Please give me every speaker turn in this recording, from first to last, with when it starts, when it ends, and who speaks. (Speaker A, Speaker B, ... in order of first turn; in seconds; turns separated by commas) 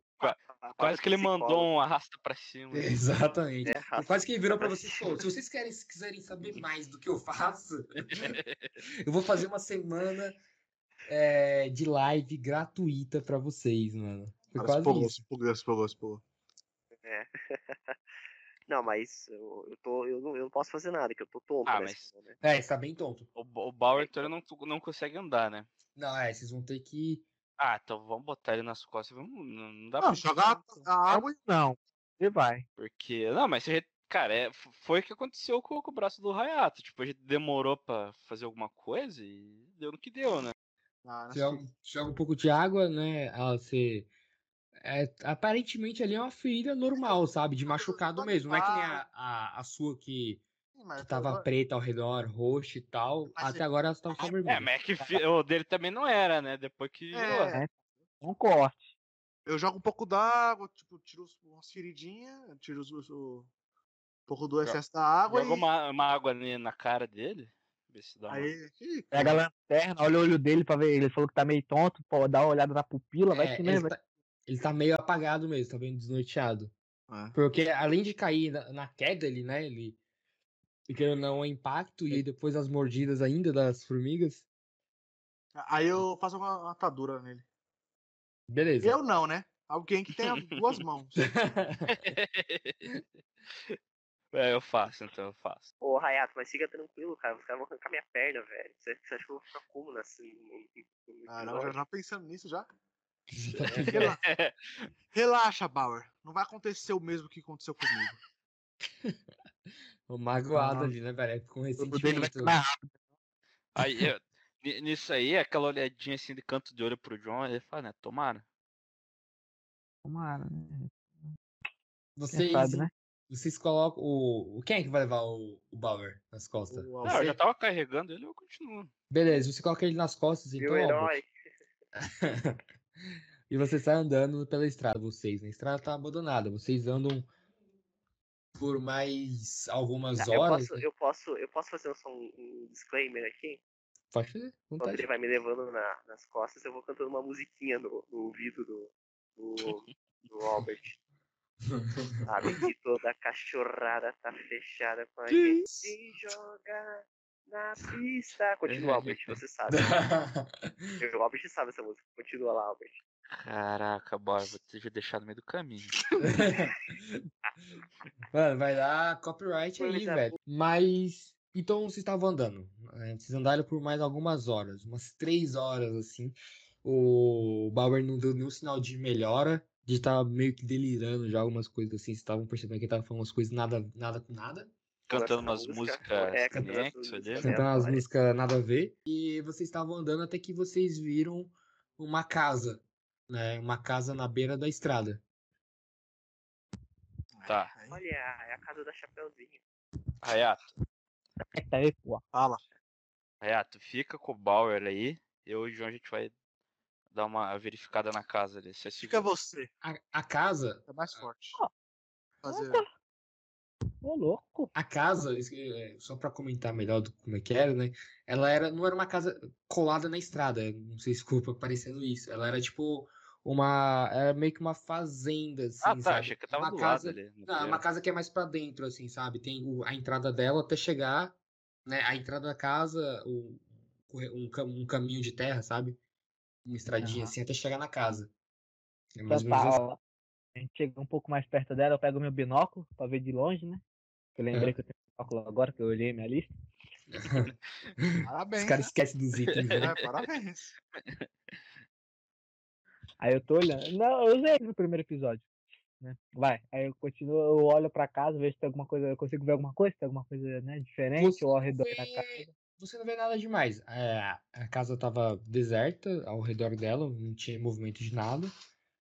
Speaker A: 0.2-3.0, Speaker B: 0.2-1.7, Speaker C: 2.7-10.4, Speaker B: 3.7-5.2, Speaker A: 8.2-8.7, Speaker C: 11.1-15.2, Speaker D: 14.6-16.2, Speaker B: 17.0-17.9, Speaker B: 18.7-22.4, Speaker A: 21.7-22.1, Speaker C: 22.4-23.3, Speaker A: 23.4-25.7, Speaker B: 23.9-24.3, Speaker C: 26.0-27.3, Speaker A: 27.6-30.4, Speaker D: 30.0-31.3, Speaker E: 30.8-32.6, Speaker A: 32.8-40.5, Speaker D: 41.0-41.6, Speaker C: 41.3-44.1, Speaker C: 44.8-50.5, Speaker D: 47.7-49.0, Speaker D: 50.7-51.5, Speaker C: 51.0-54.7, Speaker D: 53.3-53.6, Speaker A: 54.4-57.6, Speaker D: 57.1-57.6, Speaker E: 57.5-58.9, Speaker D: 59.5-63.5, Speaker D: 64.3-65.7, Speaker A: 64.6-68.5, Speaker D: 68.3-69.4, Speaker E: 69.1-73.9, Speaker C: 73.3-76.7, Speaker D: 77.1-77.4, Speaker C: 77.3-80.0, Speaker C: 80.9-84.5, Speaker D: 85.5-87.5, Speaker C: 88.5-89.0, Speaker D: 88.8-91.3, Speaker A: 90.2-90.5, Speaker C: 91.2-92.0, Speaker A: 91.9-93.1, Speaker A: 94.3-95.7, Speaker B: 95.8-101.8, Speaker D: 101.3-102.7, Speaker C: 103.3-104.0, Speaker A: 103.5-104.9, Speaker D: 103.7-104.2, Speaker D: 105.1-108.2, Speaker C: 110.1-112.6, Speaker E: 110.5-111.0, Speaker E: 111.8-113.0, Speaker A: 113.8-118.5, Speaker E: 120.0-121.4, Speaker C: 122.2-127.4, Speaker E: 122.3-122.9, Speaker D: 126.7-127.2, Speaker A: 127.0-128.9, Speaker C: 129.1-131.2, Speaker B: 130.6-131.3, Speaker C: 132.0-132.6, Speaker C: 133.5-137.3, Speaker C: 138.6-140.9, Speaker B: 140.2-143.6, Speaker C: 144.1-145.1, Speaker B: 144.8-151.0, Speaker C: 151.7-152.2, Speaker B: 152.3-160.1, Speaker D: 155.3-155.7, Speaker A: 158.7-159.4, Speaker C: 159.7-161.0, Speaker B: 161.0-163.0, Speaker A: 163.4-166.0, Speaker C: 166.2-167.2, Speaker C: 168.3-184.7, Speaker B: 169.8-170.4, Speaker A: 185.1-187.6, Speaker B: 185.1-188.1, Speaker C: 186.5-186.8, Speaker C: 187.4-195.2, Speaker D: 197.4-198.0, Speaker A: 197.5-197.7, Speaker B: 197.9-199.6, Speaker A: 200.2-200.7, Speaker E: 201.4-202.2, Speaker D: 202.3-202.6, Speaker A: 203.4-206.3, Speaker A: 207.1-209.2, Speaker D: 209.0-209.7, Speaker C: 209.8-211.2, Speaker D: 210.9-211.6, Speaker D: 212.4-212.8, Speaker E: 212.5-212.9, Speaker E: 214.0-214.7, Speaker C: 214.7-236.0, Speaker A: 225.8-227.8, Speaker C: 236.7-238.3, Speaker E: 237.0-237.3, Speaker C: 239.2-239.8, Speaker E: 239.3-240.0, Speaker E: 240.6-243.8, Speaker E: 244.4-246.5, Speaker C: 247.1-249.9, Speaker D: 248.2-248.9, Speaker A: 249.6-250.1, Speaker D: 249.7-250.7, Speaker E: 253.2-255.5, Speaker E: 256.0-262.5, Speaker C: 261.2-268.5